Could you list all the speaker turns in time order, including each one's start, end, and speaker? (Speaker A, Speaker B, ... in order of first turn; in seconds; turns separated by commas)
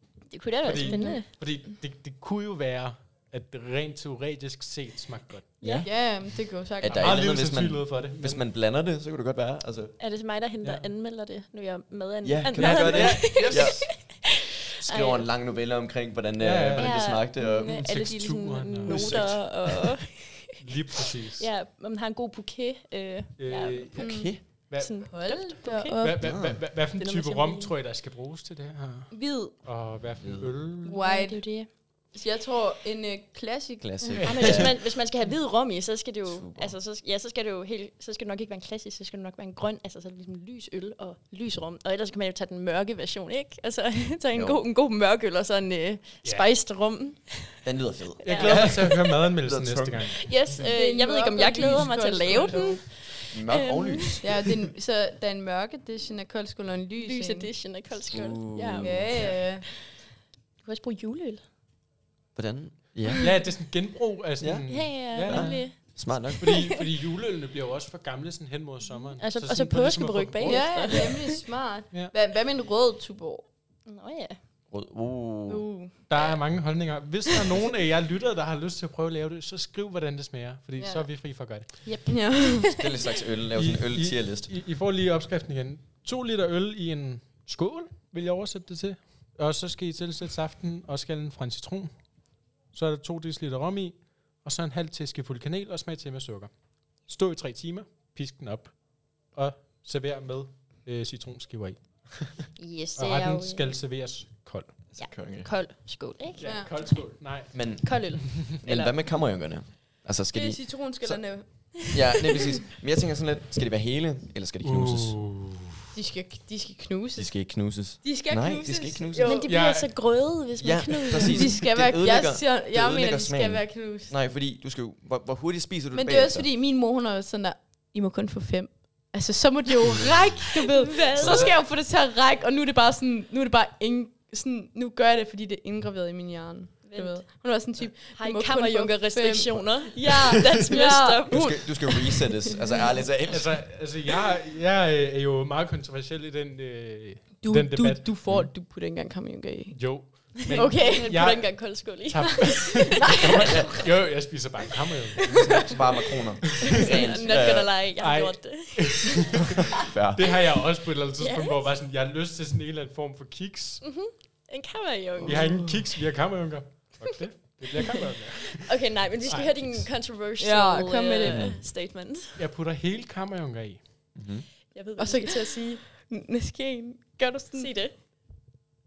Speaker A: 0.3-1.2, Speaker B: 0.6-5.5, Speaker C: 0.8-1.2, Speaker A: 5.6-5.9, Speaker D: 5.6-5.9, Speaker C: 5.8-7.2, Speaker D: 6.8-9.9, Speaker B: 6.9-8.4, Speaker A: 10.0-15.2, Speaker B: 10.6-10.9, Speaker D: 12.2-13.9, Speaker B: 12.5-13.9, Speaker D: 14.8-18.1, Speaker B: 16.4-17.1, Speaker A: 16.8-20.5, Speaker B: 17.8-19.3, Speaker D: 18.8-19.9, Speaker B: 20.6-21.5, Speaker A: 21.4-24.2, Speaker B: 23.4-24.9, Speaker C: 24.0-24.3, Speaker D: 24.0-24.4, Speaker A: 24.8-26.0, Speaker C: 25.1-26.2, Speaker B: 26.0-31.0, Speaker D: 26.2-26.6, Speaker A: 27.0-27.7, Speaker C: 29.1-29.6, Speaker D: 30.2-30.5, Speaker C: 30.8-31.4, Speaker A: 30.9-31.7, Speaker C: 32.1-34.2, Speaker D: 33.8-34.8, Speaker B: 34.2-34.6, Speaker A: 34.2-47.6, Speaker D: 36.2-36.7, Speaker D: 44.3-44.6, Speaker D: 47.6-50.3, Speaker A: 48.2-49.0, Speaker B: 48.2-50.3, Speaker A: 50.2-54.2, Speaker C: 50.7-52.8, Speaker D: 53.2-54.6, Speaker C: 54.2-57.5, Speaker A: 57.0-59.8, Speaker D: 58.1-59.3, Speaker C: 58.8-59.6, Speaker A: 60.6-61.4, Speaker D: 62.3-63.3, Speaker B: 63.2-70.7, Speaker D: 64.4-66.7, Speaker A: 64.7-65.8, Speaker A: 66.4-66.8, Speaker A: 69.2-71.4, Speaker C: 70.4-73.4, Speaker D: 70.9-71.2, Speaker A: 73.8-74.4, Speaker D: 74.7-75.6, Speaker C: 75.5-75.9, Speaker B: 76.1-81.7, Speaker C: 80.8-81.0, Speaker A: 81.8-83.2, Speaker C: 82.0-82.7, Speaker D: 82.8-84.5, Speaker B: 83.5-91.9, Speaker B: 92.7-104.7, Speaker A: 102.6-103.7, Speaker D: 104.9-105.5, Speaker A: 105.0-106.9, Speaker B: 106.4-108.0, Speaker C: 106.4-106.7, Speaker D: 107.5-115.2, Speaker A: 107.8-108.9, Speaker C: 110.3-112.3, Speaker B: 114.6-115.7, Speaker C: 115.9-117.4, Speaker D: 117.1-119.4, Speaker C: 118.0-119.5, Speaker A: 119.2-121.5, Speaker B: 119.5-119.9, Speaker D: 120.6-126.5, Speaker C: 121.2-124.1, Speaker C: 125.9-142.8, Speaker A: 130.6-131.5, Speaker A: 136.8-137.4, Speaker A: 138.1-141.6, Speaker D: 141.3-143.6, Speaker B: 143.3-148.1, Speaker C: 147.4-151.3, Speaker B: 149.7-155.8, Speaker A: 150.5-153.4, Speaker C: 152.5-153.6, Speaker D: 153.4-153.8, Speaker D: 155.4-157.7, Speaker B: 156.5-156.8, Speaker A: 156.7-159.4, Speaker C: 156.7-157.1, Speaker B: 158.0-163.8, Speaker D: 159.4-160.3, Speaker A: 161.2-161.7, Speaker A: 163.8-165.4, Speaker D: 165.2-165.5, Speaker B: 165.2-168.7, Speaker A: 168.5-172.4, Speaker B: 169.2-169.9, Speaker C: 170.4-171.5, Speaker D: 171.2-171.6, Speaker B: 172.4-173.8, Speaker D: 174.1-174.4, Speaker A: 174.7-175.8, Speaker C: 175.0-177.7, Speaker A: 177.5-177.9